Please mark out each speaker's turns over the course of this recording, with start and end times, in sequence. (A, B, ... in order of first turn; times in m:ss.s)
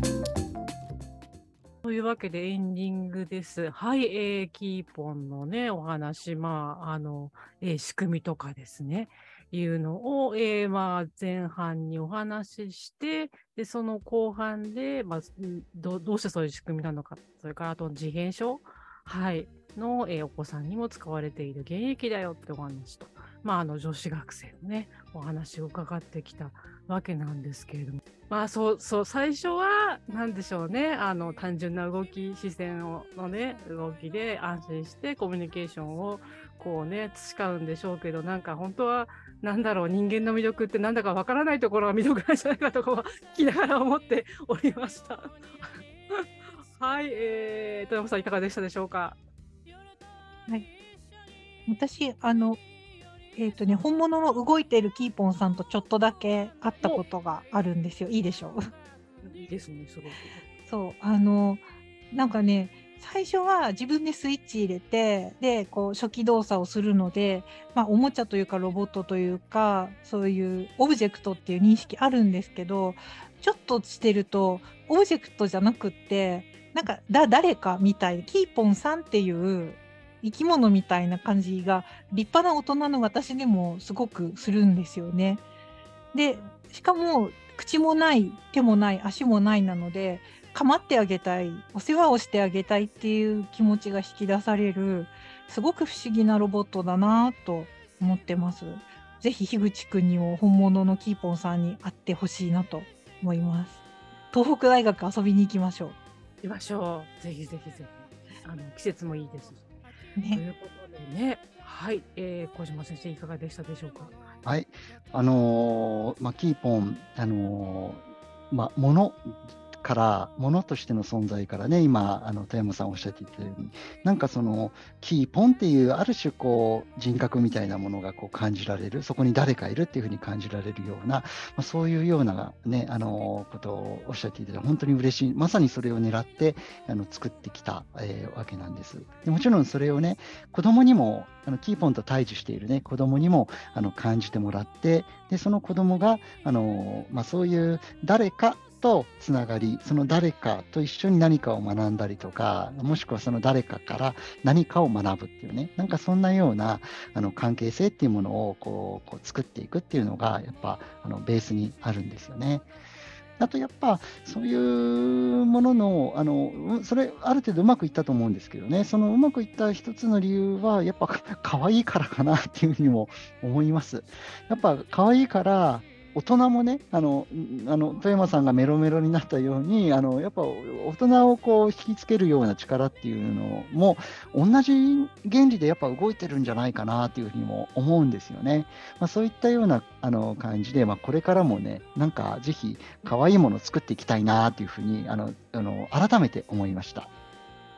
0:01.8-0:49.2 A
0:51.7-0:52.6 B
0:53.4-0:58.6 B
0:59.2-1:00.4 A
1:00.7-1:25.4 B
1:26.1-1:46.0 B
1:46.4-1:49.7 A
1:50.2-1:50.4 B
1:50.3-1:54.2 A
1:54.4-2:42.7 C
2:43.4-3:17.1 C